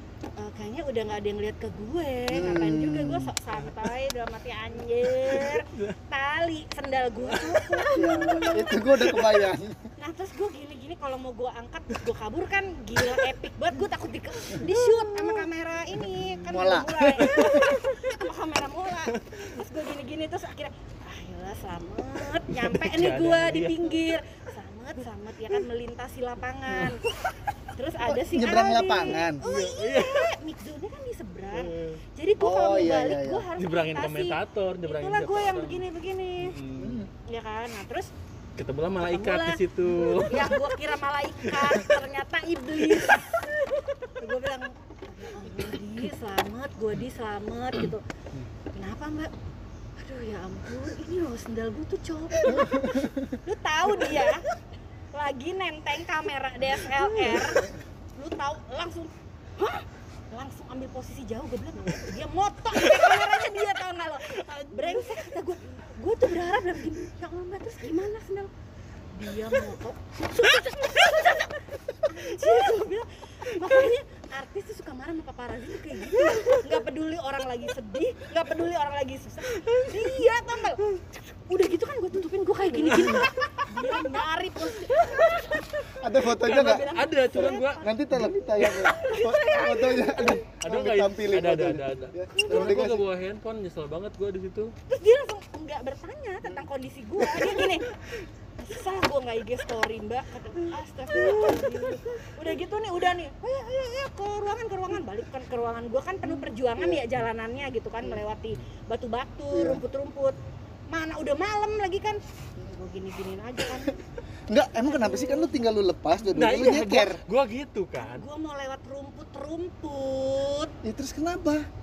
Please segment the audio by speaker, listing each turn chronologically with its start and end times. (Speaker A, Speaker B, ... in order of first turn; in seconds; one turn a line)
Speaker A: 0.4-8.7
Speaker B: 2.3-3.3
Speaker C: 5.0-6.0
Speaker C: 7.2-9.4
Speaker B: 7.9-9.9
Speaker A: 10.0-27.0
Speaker C: 14.5-15.4
Speaker B: 16.5-17.7
Speaker C: 17.3-17.9
Speaker C: 19.1-19.5
Speaker C: 22.5-23.9
Speaker C: 27.2-27.5
Speaker A: 27.7-36.6
Speaker B: 28.0-29.4
Speaker C: 29.4-30.3
Speaker C: 31.5-32.0
Speaker B: 32.4-33.5
Speaker C: 33.6-35.8
Speaker C: 36.4-37.1
Speaker B: 36.8-37.1
Speaker A: 37.2-38.1
Speaker C: 38.5-40.6
Speaker A: 39.0-43.6
Speaker C: 41.5-42.0
Speaker C: 42.9-43.2
Speaker A: 44.2-48.0
Speaker A: 48.7-49.3
Speaker A: 50.0-54.5
Speaker B: 52.5-53.0
Speaker A: 55.1-68.5
Speaker C: 57.0-57.7
Speaker C: 62.8-63.2
Speaker C: 64.4-65.2
Speaker A: 69.1-87.9
Speaker C: 79.5-80.2
Speaker C: 82.8-83.6
Speaker B: 85.9-93.0
Speaker C: 86.4-88.4
Speaker A: 88.6-90.4
Speaker C: 90.6-94.7
Speaker A: 92.4-92.6
Speaker A: 94.9-97.9
Speaker A: 98.6-110.4
Speaker B: 101.2-102.0
Speaker B: 106.8-107.0
Speaker B: 109.5-109.8
Speaker A: 110.9-114.0
Speaker B: 114.5-117.2
Speaker A: 114.8-115.5
Speaker C: 116.3-118.2
Speaker A: 118.0-120.7
Speaker B: 120.8-121.7